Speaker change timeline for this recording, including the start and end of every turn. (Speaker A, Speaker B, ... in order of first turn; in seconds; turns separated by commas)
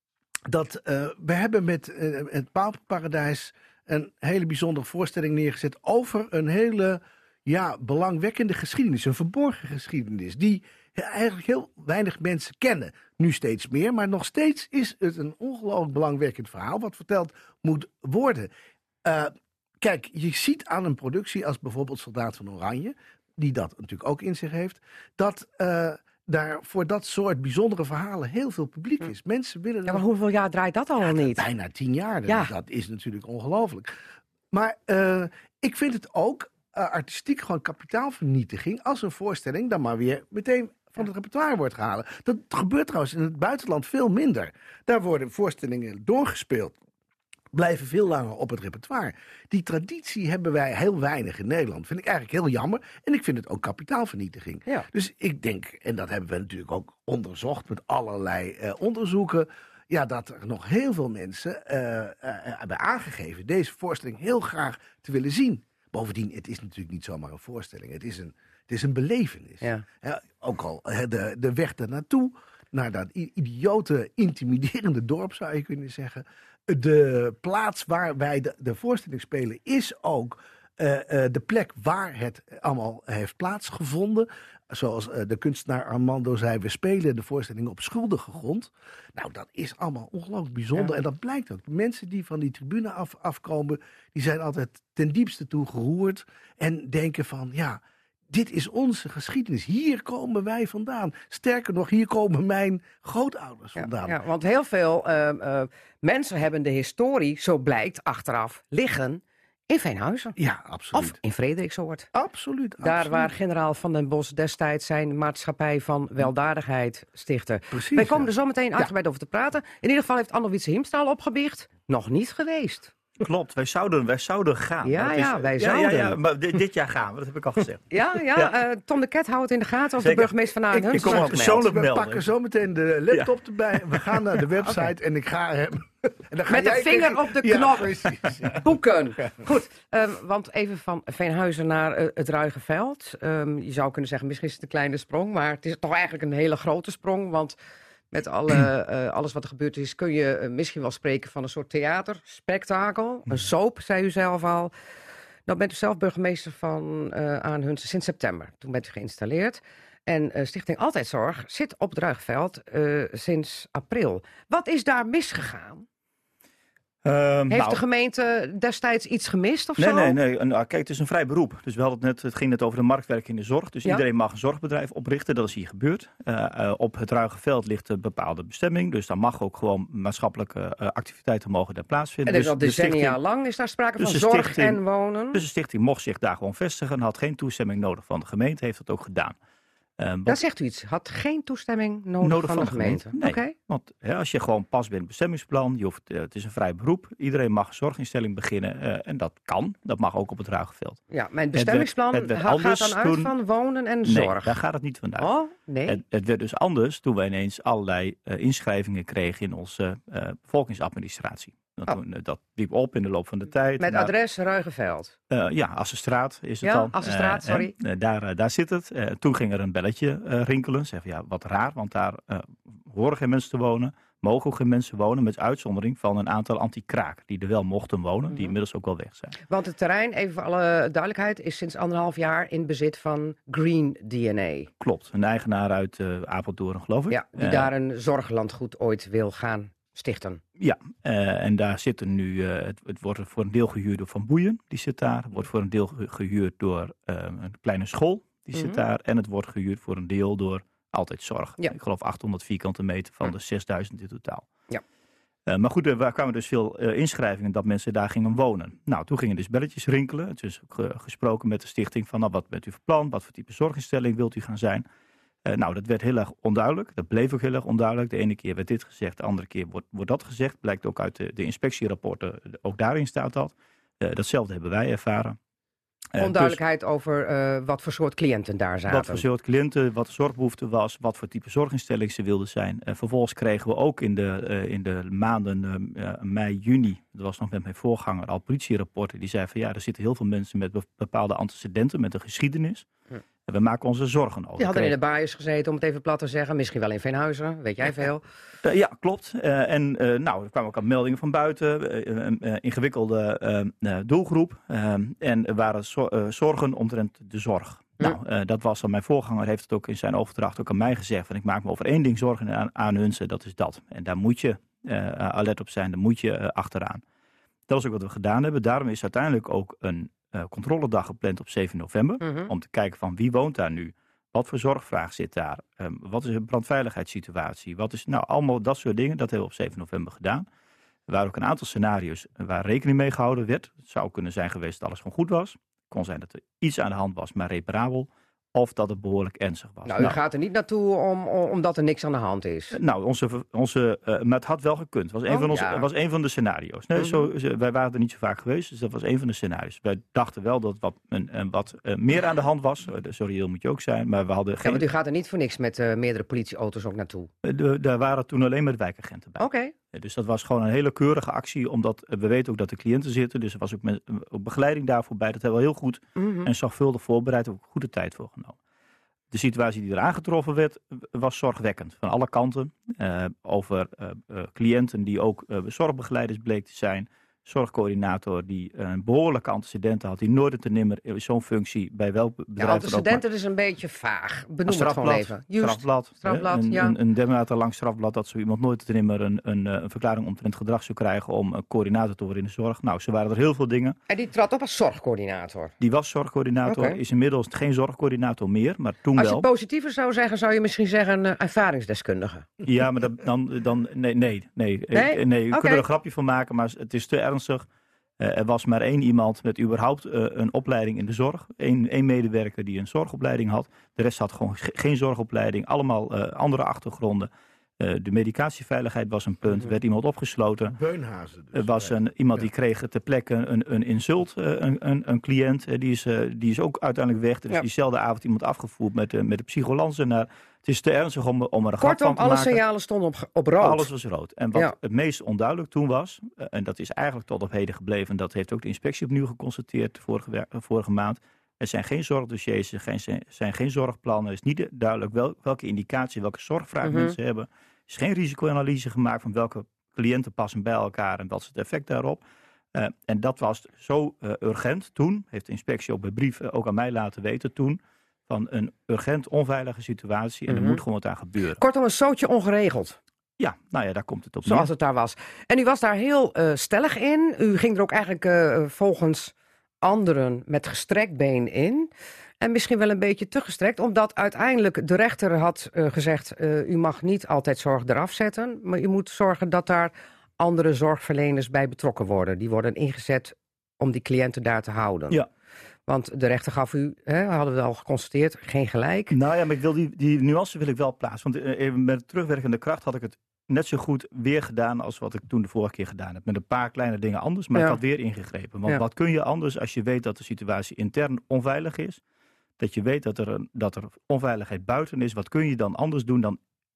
Speaker A: 0.5-18.5, Speaker A: 19.0-30.0, Speaker B: 29.9-31.4, Speaker A: 31.0-33.9, Speaker B: 32.3-32.5, Speaker A: 34.5-46.8, Speaker A: 47.5-104.2, Speaker B: 103.8-110.3, Speaker A: 110.3-111.2, Speaker B: 110.9-112.1, Speaker A: 112.1-113.3, Speaker B: 112.8-122.9, Speaker A: 117.7-118.3, Speaker C: 123.2-128.5, Speaker B: 124.8-126.2, Speaker B: 127.9-131.6, Speaker C: 130.0-132.2, Speaker A: 130.8-138.7, Speaker C: 133.1-134.4, Speaker B: 136.5-137.9, Speaker B: 138.5-147.6, Speaker B: 148.1-154.7, Speaker B: 155.5-165.8, Speaker C: 167.0-167.8, Speaker B: 167.5-170.2, Speaker C: 169.8-183.2, Speaker B: 182.2-185.4, Speaker C: 184.0-184.8, Speaker C: 185.3-189.3, Speaker C: 190.0-190.4, Speaker B: 190.3-193.5, Speaker C: 192.2-201.0, Speaker B: 201.1-204.5, Speaker C: 201.5-203.3, Speaker C: 204.0-205.3, Speaker B: 205.2-206.0, Speaker C: 205.9-214.1, Speaker B: 213.8-215.1, Speaker C: 215.3-229.3, Speaker B: 216.6-217.7, Speaker B: 229.5-234.7, Speaker C: 234.8-237.7, Speaker B: 237.1-240.4, Speaker C: 240.6-254.4, Speaker B: 248.5-248.8, Speaker C: 255.5-264.8, Speaker C: 265.4-275.4, Speaker C: 276.1-276.6, Speaker B: 276.2-279.2, Speaker C: 278.9-292.9, Speaker C: 293.5-294.9, Speaker B: 294.6-298.2, Speaker C: 298.6-317.0, Speaker C: 317.7-330.4, Speaker B: 322.2-322.5, Speaker C: 331.1-340.2, Speaker B: 339.8-342.8, Speaker C: 342.7-354.8, Speaker B: 345.3-345.9, Speaker B: 347.0-347.3, Speaker B: 354.6-357.3, Speaker C: 357.4-368.6, Speaker B: 359.4-359.7, Speaker B: 366.1-366.5, Speaker C: 369.3-383.2, Speaker B: 382.6-386.9, Speaker C: 384.7-394.0, Speaker B: 394.1-395.7, Speaker C: 395.8-399.4, Speaker B: 396.6-397.0, Speaker B: 399.2-402.4, Speaker C: 402.6-407.6, Speaker B: 404.9-405.8, Speaker C: 408.2-420.8, Speaker A: 420.7-422.4, Speaker C: 421.5-432.6, Speaker B: 431.8-433.9, Speaker C: 433.6-452.2, Speaker B: 446.8-447.1, Speaker C: 452.7-461.6, Speaker B: 460.5-460.8, Speaker B: 461.6-463.0, Speaker C: 463.4-464.7, Speaker B: 464.4-471.9, Speaker B: 472.4-485.2, Speaker B: 485.9-489.1, Speaker C: 489.1-502.0, Speaker C: 502.6-506.4